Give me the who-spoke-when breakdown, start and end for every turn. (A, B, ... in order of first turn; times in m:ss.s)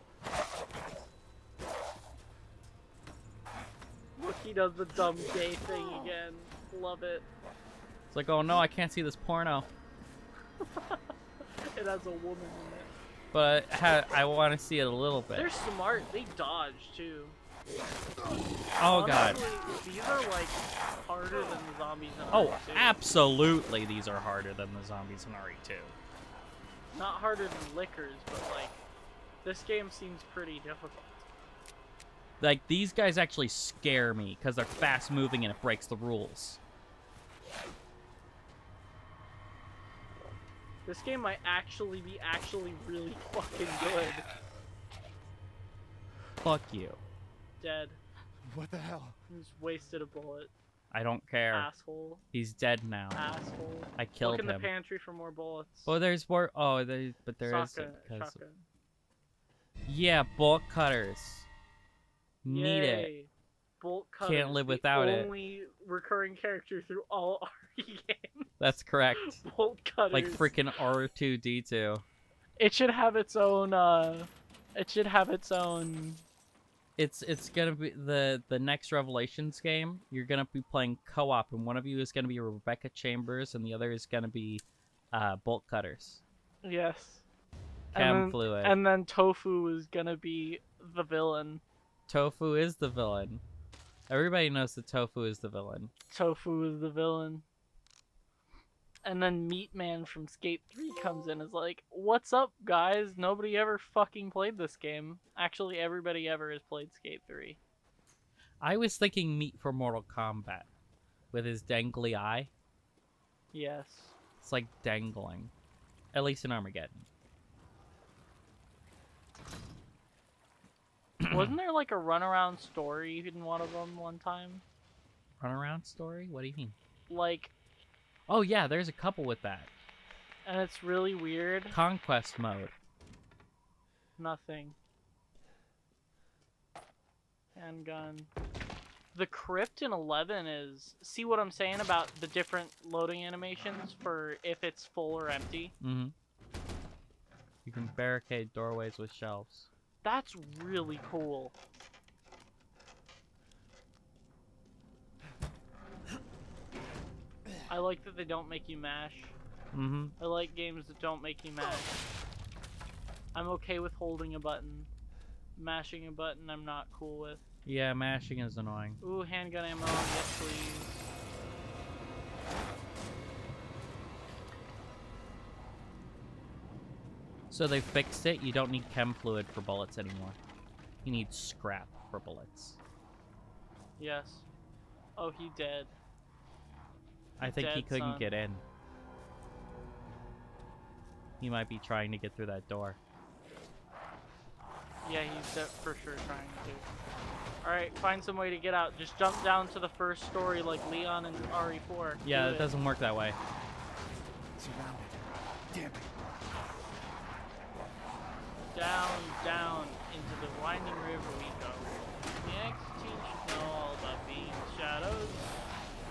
0:04.2-0:07.3 A
0:08.1-0:09.7 B
0:10.6-0:12.9 A
0:13.3-0:15.5 B
0:15.3-0:17.4 A
0:18.8-0:19.4 B
0:18.8-0:23.0 A
0:22.3-0:26.0 B
0:26.9-0:28.8 A
0:29.4-0:31.3 A
0:32.4-0:36.6 B
0:40.8-0:44.3 A
0:46.4-0:47.0 B
0:47.6-0:48.0 A
0:48.4-0:49.2 C
0:49.3-0:50.5 A
0:50.9-0:51.7 B
0:51.5-0:52.2 A
0:52.3-0:53.2 B
0:53.1-0:56.0 A
0:54.0-0:54.7 B
0:55.9-0:58.4 B
0:57.4-0:58.7 A
0:59.9-1:01.5 B
1:02.4-1:03.1 B
1:02.5-1:08.7 A
1:04.2-1:05.3 B
1:08.6-1:09.4 B
1:09.2-1:10.5 A
1:10.1-1:12.0 B
1:12.6-1:16.2 A
1:17.0-1:26.2 B
1:26.6-1:27.3 A
1:27.9-1:31.6 A
1:27.9-1:28.8 B
1:32.1-1:33.4 B
1:34.1-1:35.9 B
1:36.1-1:37.4 A
1:39.0-1:47.6 A
1:48.6-1:50.7 B
1:51.3-1:52.5 B
1:53.5-1:54.2 A
1:54.4-1:55.5 B
1:56.1-1:57.1 B
2:01.2-2:01.5 B
2:01.3-2:04.6 A
2:05.4-2:06.8 B
2:07.1-2:07.5 A
2:08.3-2:09.7 B
2:10.4-2:11.8 A
2:11.7-2:12.7 B
2:14.2-2:14.8 A
2:17.6-2:18.3 A
2:19.1-2:25.7 A
2:25.8-2:26.1 B
2:27.7-2:29.7 B
2:30.0-2:31.6 A
2:37.7-2:39.4 A
2:39.7-2:40.2 B
2:40.2-2:42.0 A
2:43.3-2:44.9 A
2:45.6-2:47.4 A
2:47.7-2:49.0 B
2:49.0-2:51.1 A
2:57.5-3:00.4 B
3:01.0-3:02.8 B
3:04.0-3:04.5 A
3:05.2-3:06.0 A
3:07.4-3:08.6 B
3:07.4-3:08.3 A
3:11.4-3:13.0 B
3:15.0-3:16.9 A
3:17.6-3:22.7 A
3:22.2-3:23.4 B
3:24.6-3:26.2 C
3:28.6-3:35.5 A